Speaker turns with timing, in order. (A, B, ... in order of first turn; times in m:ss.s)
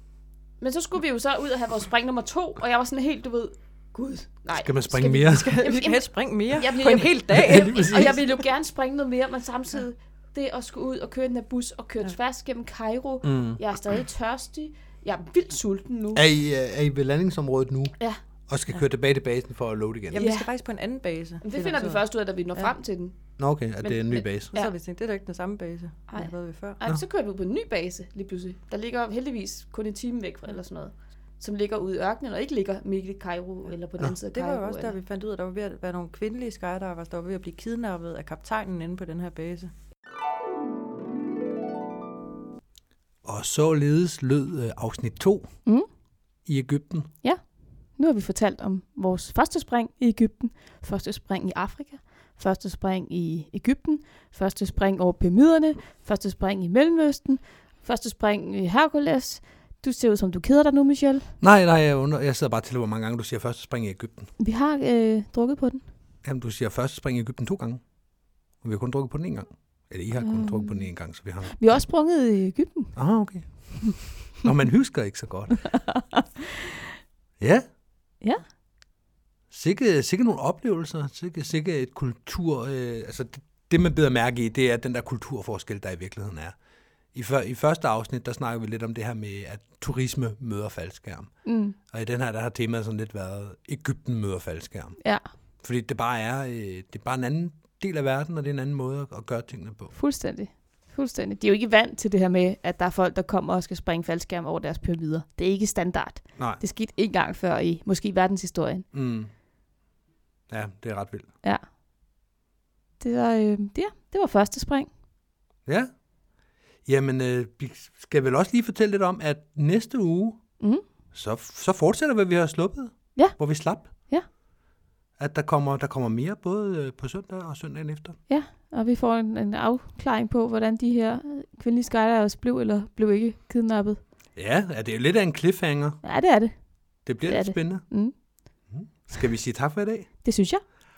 0:00.6-0:16.2 A
0:04.5-0:05.5 B
0:05.2-0:08.3 C
0:07.3-0:08.1 B
0:13.2-0:13.6 B
0:16.2-0:20.3 B
0:20.1-0:22.0 C
0:20.2-0:20.5 A
0:21.4-0:24.7 A
0:23.4-0:24.5 B
0:24.5-0:26.8 C
0:26.1-0:35.0 A
0:34.2-0:39.7 C
0:43.2-0:45.6 B
0:46.4-0:47.1 B
0:47.2-1:01.3 A
1:01.4-1:04.3 B
1:04.4-1:05.8 A
1:06.2-1:11.6 B
1:10.2-1:13.5 A
1:13.0-1:15.8 B
1:15.9-1:16.2 A
1:17.4-1:17.7 B
1:18.2-1:18.5 A
1:19.5-1:26.6 B
1:27.1-1:35.1 B
1:31.4-1:31.8 A
1:35.0-1:35.3 A
1:35.6-1:39.9 B
1:39.9-1:48.9 A
1:48.9-1:49.3 B
1:50.5-1:51.3 B
1:51.4-1:51.7 A
1:53.0-1:54.9 A
1:55.7-1:56.1 B
1:56.8-2:00.5 B
2:01.1-2:03.9 B
2:03.2-2:04.3 A
2:05.2-2:08.2 B
2:08.3-2:14.0 A
2:14.4-2:16.0 B
2:16.0-2:18.2 A
2:17.1-2:17.9 B
2:18.7-2:20.1 B
2:20.2-2:20.6 A